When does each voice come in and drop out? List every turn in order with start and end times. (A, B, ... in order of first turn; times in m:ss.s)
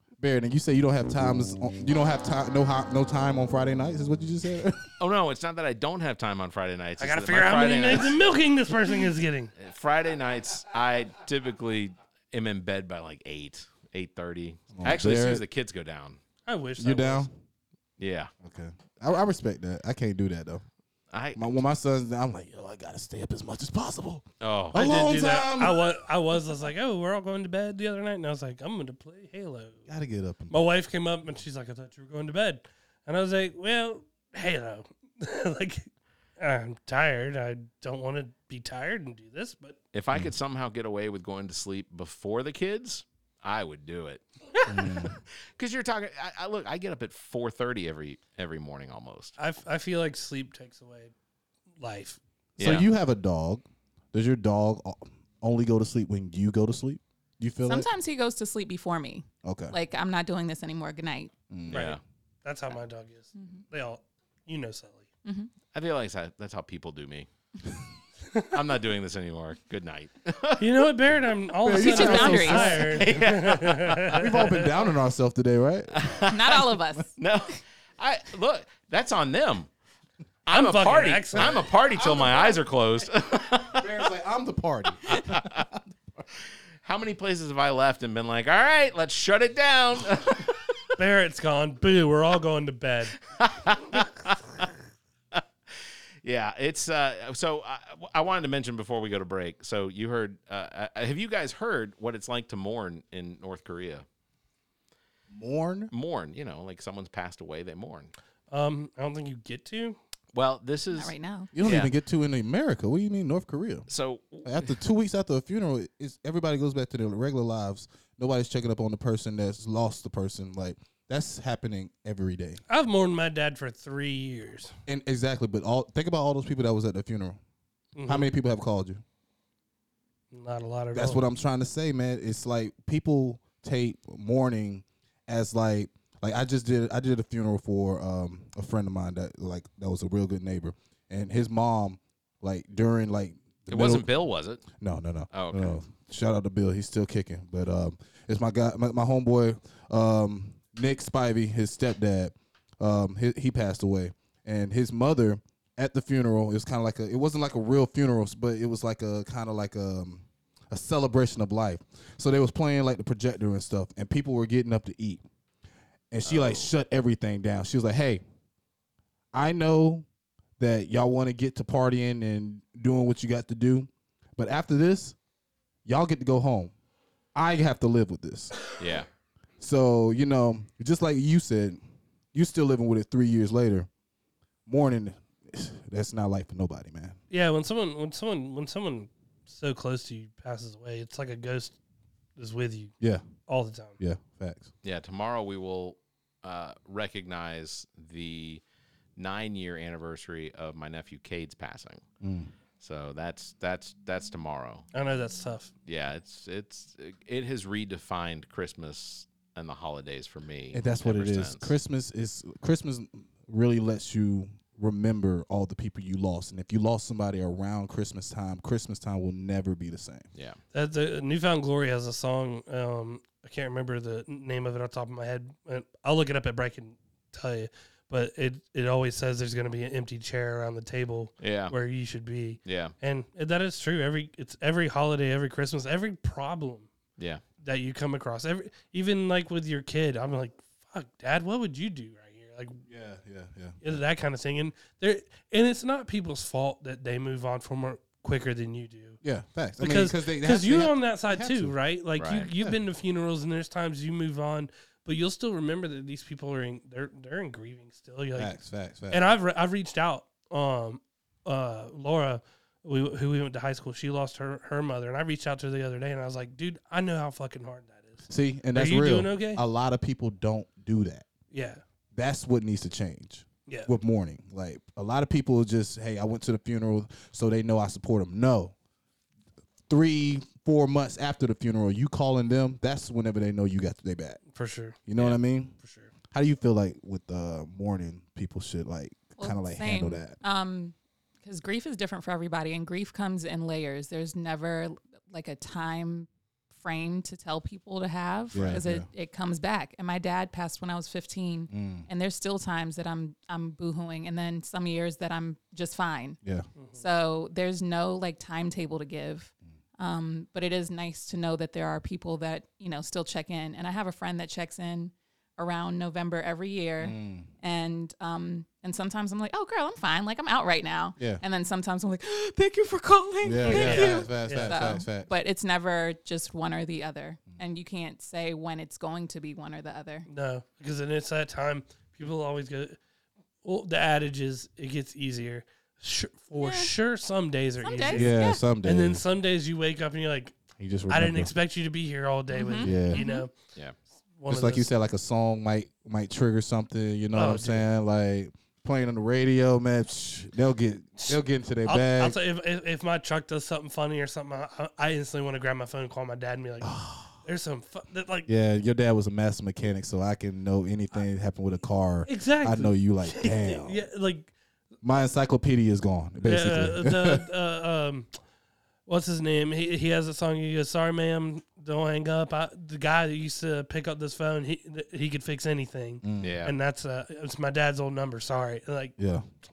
0:00.2-0:04.8 A
0:05.0-0:08.2 B
0:07.0-0:09.5 C
0:09.6-0:16.2 B
0:14.8-0:15.4 A
0:16.4-0:17.2 C
0:16.8-0:17.3 A
0:18.0-0:18.3 B
0:18.4-0:20.6 A
0:21.1-0:21.4 B
0:21.3-0:25.8 A
0:24.4-0:25.1 B
0:24.7-0:29.8 C
0:29.9-0:30.6 A
0:30.5-0:35.9 C
0:36.4-0:39.8 C
0:39.9-0:44.2 B
0:44.7-0:45.2 A
0:45.6-0:49.3 B
0:49.4-0:51.1 C
0:51.8-0:52.2 C
0:52.6-0:52.9 B
0:52.6-0:57.9 A
0:57.6-1:01.3 D
0:59.4-0:59.8 A
1:01.5-1:01.9 A
1:01.7-1:05.1 C
1:01.7-1:02.0 B
1:03.3-1:03.6 D
1:05.2-1:05.5 D
1:05.7-1:07.3 B
1:08.5-1:10.8 B
1:10.6-1:14.6 C
1:11.6-1:13.1 A
1:11.8-1:12.7 D
1:12.7-1:14.2 B
1:14.1-1:16.0 A
1:15.9-1:19.7 B
1:16.3-1:17.1 D
1:20.5-1:23.9 B
1:20.5-1:21.6 C
1:23.7-1:25.8 A
1:25.1-1:25.5 B
1:26.8-1:30.6 B
1:31.0-1:33.1 C
1:33.3-1:34.7 B
1:36.2-1:44.0 B
1:45.3-1:45.9 A
1:45.9-1:48.1 B
1:48.5-1:50.0 C
1:50.3-1:51.9 B
1:50.9-1:51.5 D
1:51.5-1:53.9 A
1:53.9-1:54.7 B
1:54.4-2:02.6 A
2:02.7-2:04.7 C
2:04.9-2:07.4 A
2:08.0-2:08.3 C
2:08.0-2:09.0 A
2:10.3-2:11.2 C
2:10.9-2:24.1 A
2:23.7-2:24.6 B
2:24.8-2:45.2 A
2:25.3-2:25.8 B
2:46.1-2:48.2 A
2:46.2-2:46.7 B
2:49.3-2:50.0 A
2:50.6-2:55.2 A
2:55.8-2:56.7 A
2:57.3-2:58.6 A
2:58.8-2:59.1 B
2:59.6-3:01.8 A
3:02.3-3:03.9 A
3:04.6-3:07.2 A
3:07.3-3:11.8 C
3:12.4-3:12.9 C
3:13.0-3:13.3 A
3:13.5-3:14.0 C
3:14.0-3:14.7 A
3:14.8-3:18.6 B
3:19.2-3:22.0 B
3:22.2-3:22.5 A
3:22.8-3:24.8 B
3:24.9-3:25.7 C
3:25.8-3:31.7 B
3:30.7-3:40.3 A
3:40.3-3:40.6 B
3:40.7-3:56.9 C
3:51.4-3:51.7 B
3:52.6-3:52.9 B
3:57.2-3:57.4 B
3:57.6-4:02.8 C
4:02.9-4:04.0 A
4:03.8-4:09.2 C
4:09.2-4:11.7 A
4:09.8-4:18.5 C
4:12.2-4:12.5 B
4:18.4-4:19.2 A
4:19.1-4:29.6 C
4:28.3-4:31.3 A
4:31.5-4:31.8 C
4:32.1-4:38.7 A
4:39.9-4:44.4 A
4:44.5-4:46.1 C
4:45.0-4:45.7 A
4:46.3-4:50.4 A
4:49.4-5:06.4 D
4:58.5-4:59.1 A
5:01.7-5:02.1 A
5:06.4-5:06.7 A
5:06.8-5:07.0 C
5:06.9-5:30.3 D
5:17.0-5:17.5 A
5:21.2-5:21.4 A
5:23.4-5:25.3 A
5:23.6-5:24.8 C
5:30.3-5:33.0 C
5:33.6-5:40.6 C
5:36.5-5:36.9 D
5:37.8-5:38.6 D
5:38.1-5:39.2 A
5:40.8-5:41.5 A
5:41.1-5:43.5 C
5:42.5-5:43.5 D
5:42.8-5:43.2 A
5:44.4-5:44.9 C
5:44.5-5:52.4 A
5:47.3-5:47.8 C
5:51.9-5:58.5 C
5:56.8-5:57.4 A
5:58.5-6:04.0 A
6:02.2-6:04.5 C
6:05.0-6:07.4 A
6:06.4-6:08.3 C
6:09.0-6:19.1 C
6:16.2-6:16.6 A
6:16.4-6:16.7 B
6:19.2-6:19.4 A